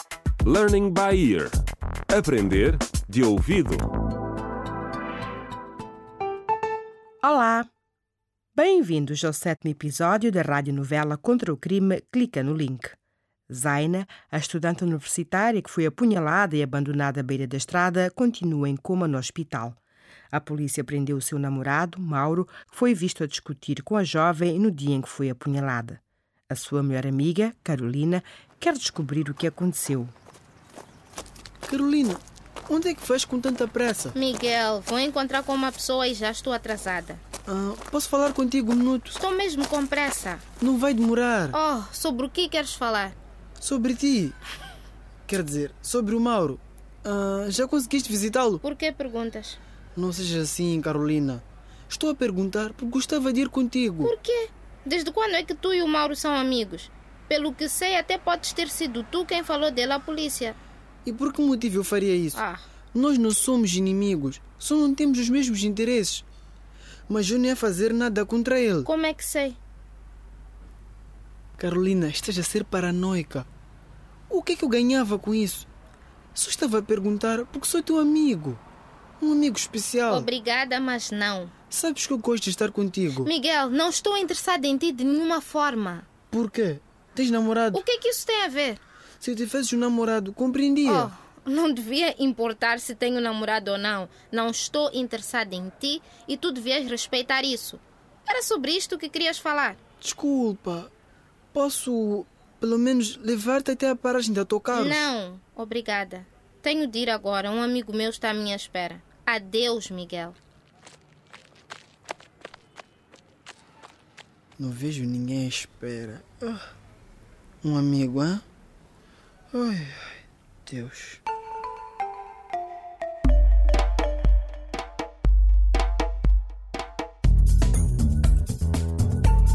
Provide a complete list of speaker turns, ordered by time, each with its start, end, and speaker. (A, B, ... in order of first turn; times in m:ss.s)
0:00.4-0:01.5 A
0:02.1-0:03.9 A
0:07.2-0:07.7 B
0:08.6-0:13.0 B
0:13.5-0:19.8 B
0:20.3-0:30.2 B
0:31.7-0:34.2 C
0:34.1-0:37.2 D
0:37.5-0:39.2 C
0:39.2-0:40.4 D
0:40.6-0:41.6 C
0:41.5-0:43.2 D
0:43.6-0:44.4 C
0:45.3-0:48.6 C
0:48.6-0:49.6 D
0:50.0-0:54.1 C
0:54.0-1:00.6 D
1:01.0-1:02.4 C
1:02.3-1:02.7 D
1:02.9-1:06.2 C
1:07.1-1:08.9 C
1:08.8-1:09.6 D
1:11.6-1:13.5 C
1:14.3-1:15.7 C
1:16.3-1:18.6 C
1:19.2-1:20.3 C
1:20.1-1:21.5 D
1:21.7-1:23.3 C
1:23.2-1:26.1 D
1:26.3-1:27.8 C
1:27.7-1:28.8 D
1:29.2-1:31.1 C
1:30.8-1:39.8 D
1:40.0-1:40.9 C
1:41.5-1:45.1 C
1:44.7-1:50.4 D
1:54.6-1:56.7 C
1:57.6-1:58.4 C
1:59.5-2:01.2 C